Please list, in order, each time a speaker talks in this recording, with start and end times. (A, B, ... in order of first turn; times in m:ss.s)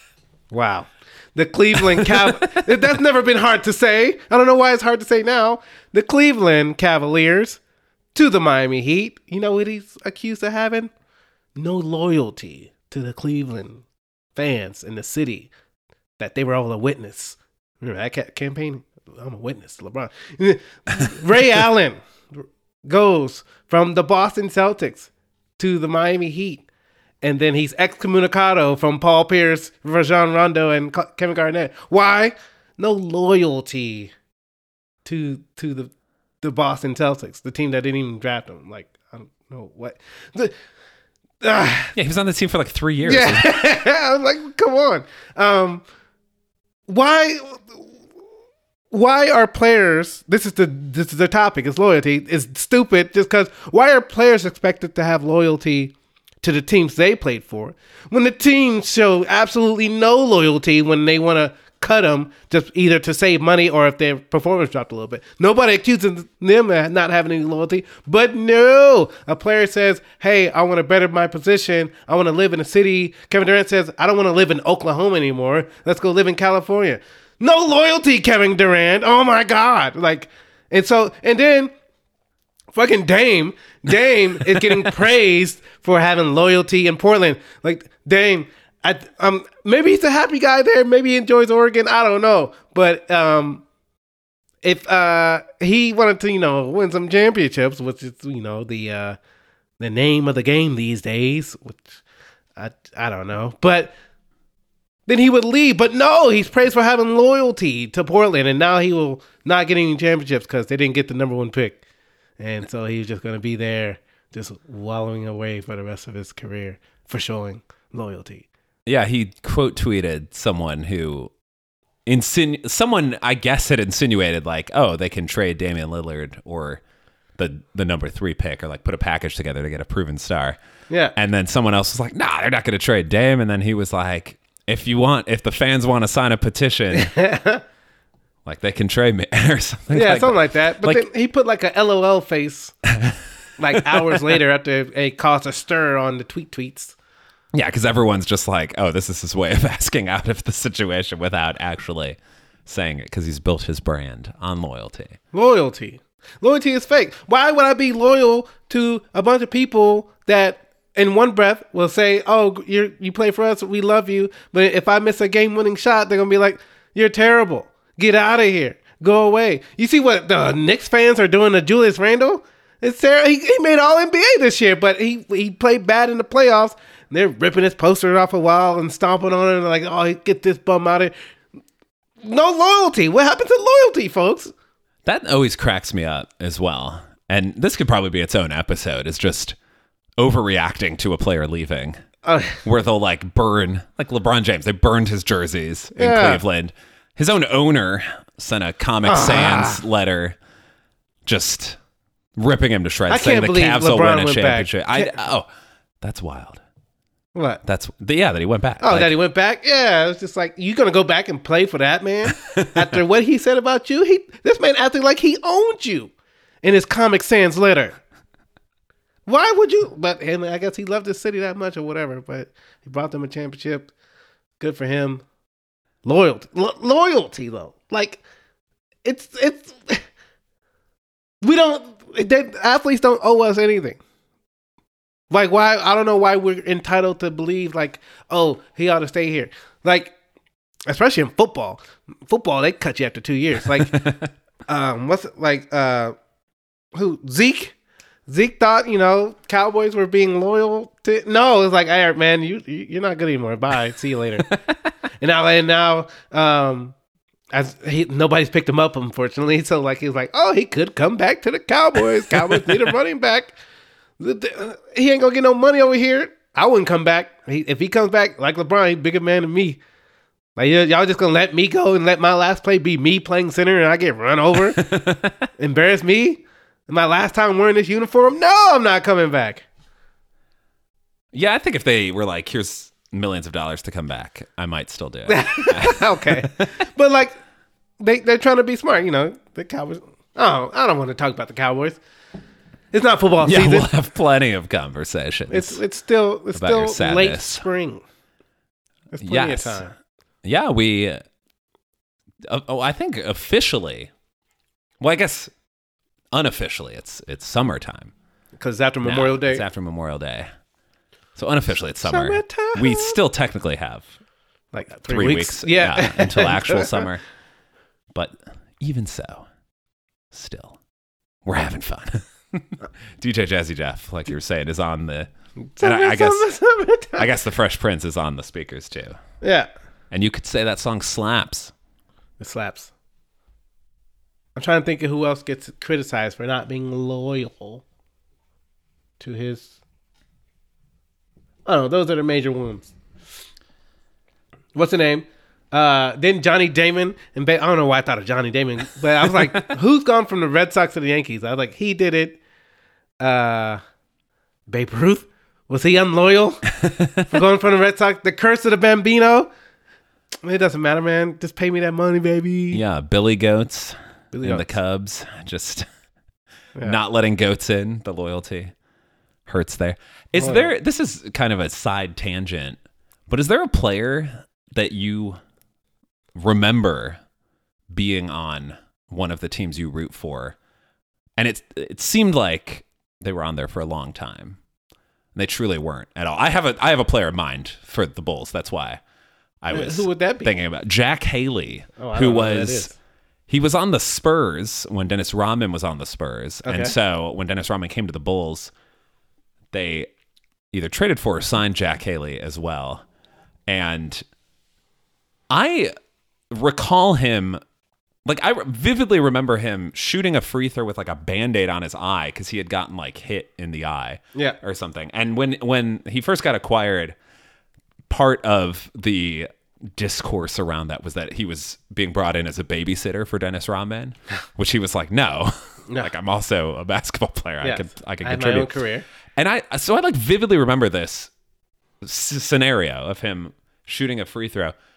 0:00.5-0:07.6 A
0:02.0-0:02.6 B
0:08.1-0:10.9 A
0:11.6-0:13.8 A
0:14.3-0:15.5 A
0:16.2-0:22.0 A
0:22.8-0:26.6 A
0:27.2-0:34.1 A
0:35.0-0:40.5 A
0:41.4-0:41.9 A
0:41.9-0:43.5 B
0:43.0-0:45.8 A
0:46.9-0:47.8 A
0:48.9-1:21.7 A
1:22.7-1:33.6 A
1:24.5-1:24.8 B
1:34.6-1:39.2 A
1:39.8-1:42.0 A
1:42.6-1:43.9 A
1:45.1-1:51.8 A
1:52.4-1:58.4 A
1:58.8-2:01.3 B
2:02.0-2:06.8 B
2:07.4-2:10.6 B
2:10.9-2:11.1 A
2:11.1-2:17.1 B
2:16.9-2:17.6 A
2:18.4-2:21.0 B
2:19.9-2:22.8 A
2:22.8-2:23.2 B
2:23.6-2:27.0 A
2:24.0-2:24.3 B
2:27.5-2:35.2 B
2:35.3-3:01.1 A
3:02.2-3:04.5 A
3:05.0-3:09.6 B
3:10.2-3:12.0 B
3:12.2-3:12.6 A
3:12.6-3:20.4 B
3:16.0-3:16.4 A
3:19.0-3:19.8 A
3:21.2-3:21.8 B
3:22.4-3:25.5 B
3:23.1-3:25.2 A
3:26.0-3:26.6 B
3:27.3-3:27.6 A
3:27.6-3:29.1 B
3:28.8-3:37.9 A
3:39.2-3:43.9 A
3:44.6-3:45.2 A
3:46.0-3:48.2 A
3:49.0-3:50.0 A
3:51.4-3:54.0 A
3:55.3-4:00.1 A
4:00.9-4:04.0 A
4:03.7-4:04.3 B
4:04.7-4:06.1 A
4:06.9-4:07.7 A
4:08.3-4:14.6 A
4:14.5-4:14.9 B
4:15.2-4:16.9 A
4:17.5-4:23.5 A
4:22.3-4:22.9 B
4:24.2-4:29.8 A
4:30.6-4:34.9 A
4:34.8-4:35.3 B
4:35.6-4:39.6 A
4:41.3-4:46.5 B
4:45.3-4:47.3 A
4:48.0-4:52.0 A
4:52.9-4:53.9 A
4:53.4-4:55.8 B
4:55.5-4:58.0 A
4:56.5-4:57.6 B
4:59.1-4:59.9 A
4:59.2-4:59.8 B
5:00.4-5:01.2 B
5:02.5-5:04.1 B
5:05.0-5:05.5 B
5:06.3-5:08.1 B
5:08.6-5:09.6 A
5:09.0-5:10.5 B
5:11.4-5:14.1 B
5:12.0-5:13.2 A
5:14.7-5:17.1 A
5:15.0-5:17.2 B
5:18.1-5:19.5 B
5:20.3-5:20.8 B
5:21.4-5:25.3 B
5:25.7-5:27.3 A
5:25.8-5:26.5 B
5:27.2-5:29.2 B
5:29.4-5:29.7 A
5:30.1-5:31.7 B
5:32.4-5:32.9 A
5:34.5-5:37.8 A
5:39.2-5:39.8 A
5:41.6-5:42.9 A
5:44.7-5:52.4 A
5:53.2-5:53.8 A
5:54.7-5:56.7 A
5:56.8-5:57.2 B
5:57.2-5:59.5 A
6:00.4-6:02.8 A
6:02.7-6:05.8 B
6:04.3-6:04.6 A
6:06.8-6:08.7 B
6:09.5-6:15.4 B
6:10.3-6:10.7 A
6:16.3-6:17.2 B
6:17.9-6:20.6 B
6:21.4-6:24.6 B
6:25.3-6:29.0 B
6:29.6-6:32.9 B
6:29.7-6:30.5 A
6:32.0-6:33.0 A
6:33.5-6:38.7 B
6:36.6-6:36.9 A
6:39.7-6:40.1 B
6:40.7-6:43.0 B
6:43.7-6:44.2 B
6:45.5-6:45.9 B
6:46.5-6:47.6 B
6:48.2-6:57.1 B
6:58.1-7:08.8 B
7:07.6-7:09.0 A
7:09.4-7:11.3 B
7:12.0-7:14.7 B